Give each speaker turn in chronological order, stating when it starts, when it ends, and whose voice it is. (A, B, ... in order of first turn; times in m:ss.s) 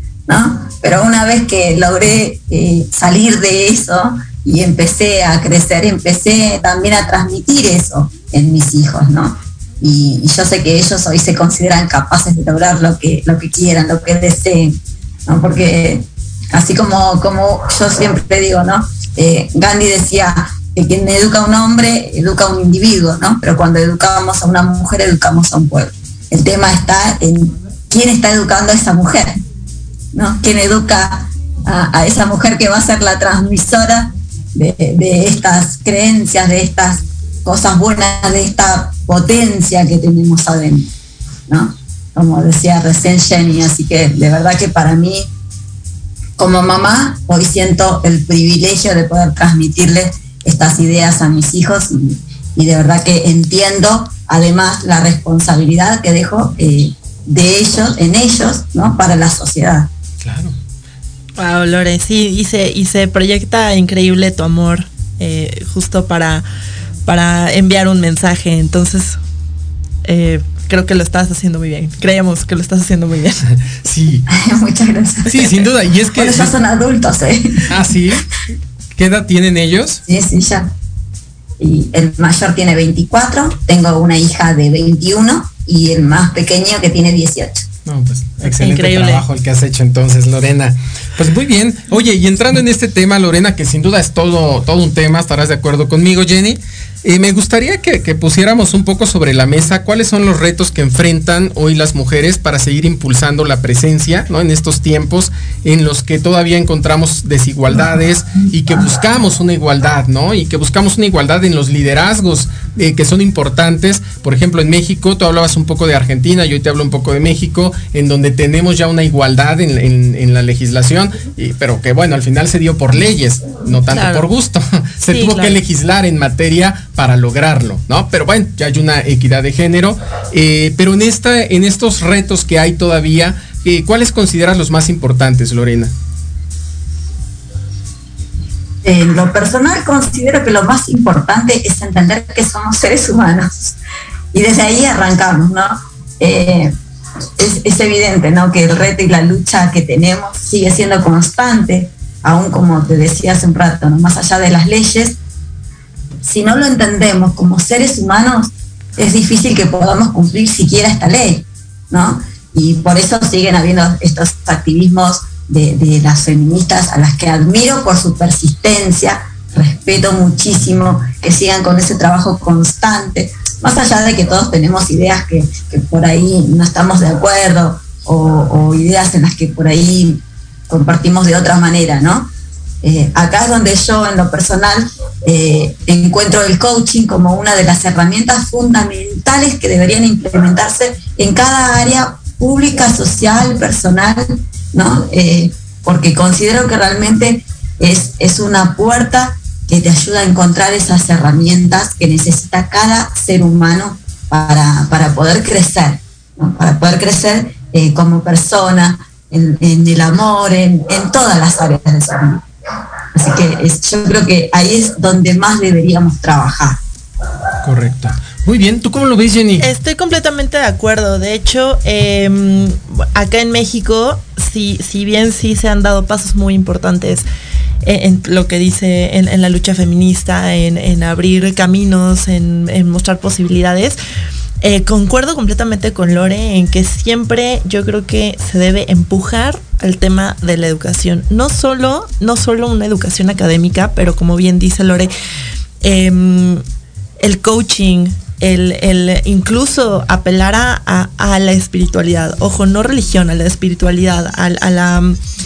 0:00.3-0:29.4 A
0:30.1-0:40.9 A
0:41.5-0:45.3 A
0:46.4-0:59.9 A
1:00.2-1:00.5 B
1:01.4-1:06.4 C
1:07.0-1:09.2 C
1:10.0-1:13.4 C
1:13.8-1:14.2 B
1:14.3-1:15.6 A
1:15.3-1:16.5 B
1:16.1-1:17.8 A
1:17.7-1:18.3 B
1:19.0-1:20.0 B
1:20.1-1:20.7 A
1:21.6-1:27.7 A
1:27.8-2:15.9 B
1:28.4-1:29.2 C
2:03.9-2:04.3 C
2:05.1-2:05.6 C
2:18.8-2:23.8 A
2:24.3-2:26.7 A
2:27.4-2:35.2 A
2:36.2-3:02.3 A
3:02.8-3:32.4 A
3:33.1-3:36.8 A
3:37.6-3:39.6 B
3:39.6-3:47.2 C
3:47.8-3:54.0 C
3:54.6-4:05.1 C
4:05.8-4:06.6 C
4:07.2-4:15.2 C